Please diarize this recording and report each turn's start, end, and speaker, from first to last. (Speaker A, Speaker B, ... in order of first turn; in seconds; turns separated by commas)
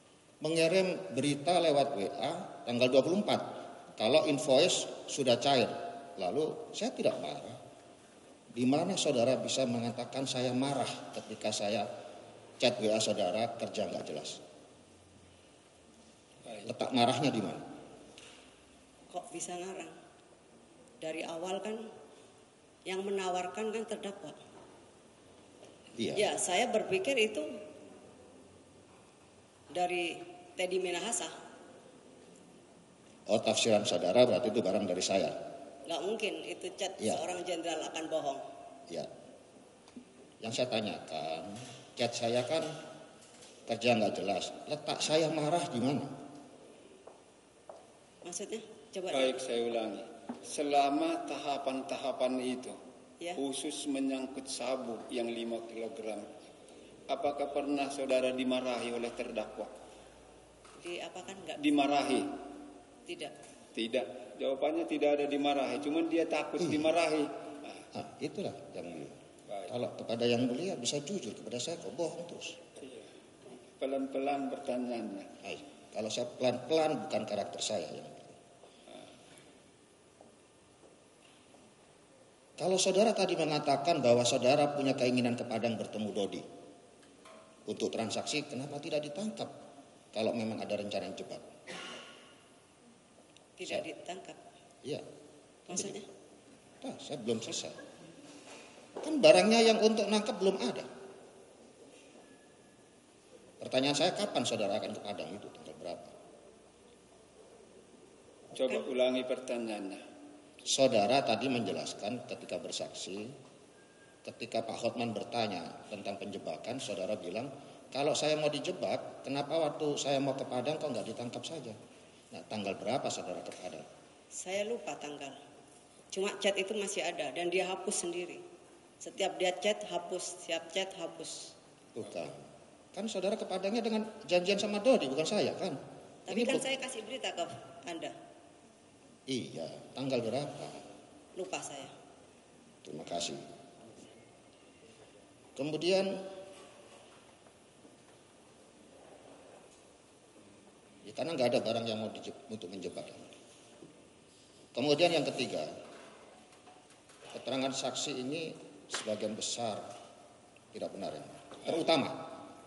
Speaker A: 0.4-7.6, Speaker A: 8.5-11.9, Speaker A: 12.6-14.4, Speaker A: 16.6-17.6, Speaker B: 19.1-19.9, Speaker B: 21.0-21.8, Speaker B: 22.9-24.4, Speaker A: 25.9-26.3, Speaker B: 26.1-27.4, Speaker B: 29.7-31.3, Speaker A: 33.3-35.4, Speaker B: 35.9-38.4, Speaker A: 40.4-42.7, Speaker A: 43.7-46.1, Speaker B: 48.2-49.3, Speaker C: 49.1-52.8, Speaker C: 53.4-56.3, Speaker C: 57.1-59.7, Speaker B: 60.8-61.6, Speaker C: 61.6-62.3, Speaker B: 63.1-63.3, Speaker C: 63.7-67.8, Speaker A: 67.9-69.2, Speaker C: 69.5-69.8, Speaker A: 69.7-72.6, Speaker C: 72.8-73.1, Speaker C: 73.8-75.3, Speaker A: 75.4-78.4, Speaker A: 82.6-86.4, Speaker A: 87.7-89.5, Speaker A: 90.1-91.4, Speaker B: 93.6-94.4, Speaker A: 95.7-96.0, Speaker B: 95.7-96.0, Speaker A: 96.8-97.8, Speaker A: 99.0-100.9, Speaker A: 103.6-106.2, Speaker C: 108.5-110.0, Speaker A: 110.7-113.3, Speaker A: 114.2-121.8, Speaker A: 122.3-123.8, Speaker B: 124.3-125.4, Speaker B: 126.1-128.4, Speaker B: 129.0-131.5, Speaker A: 131.9-132.4, Speaker A: 132.9-136.7, Speaker B: 136.3-138.1, Speaker A: 139.3-140.8, Speaker B: 141.3-141.9, Speaker A: 142.8-143.4, Speaker A: 145.6-146.2, Speaker A: 151.0-153.3, Speaker A: 154.8-155.7, Speaker A: 157.3-159.9, Speaker A: 160.7-162.3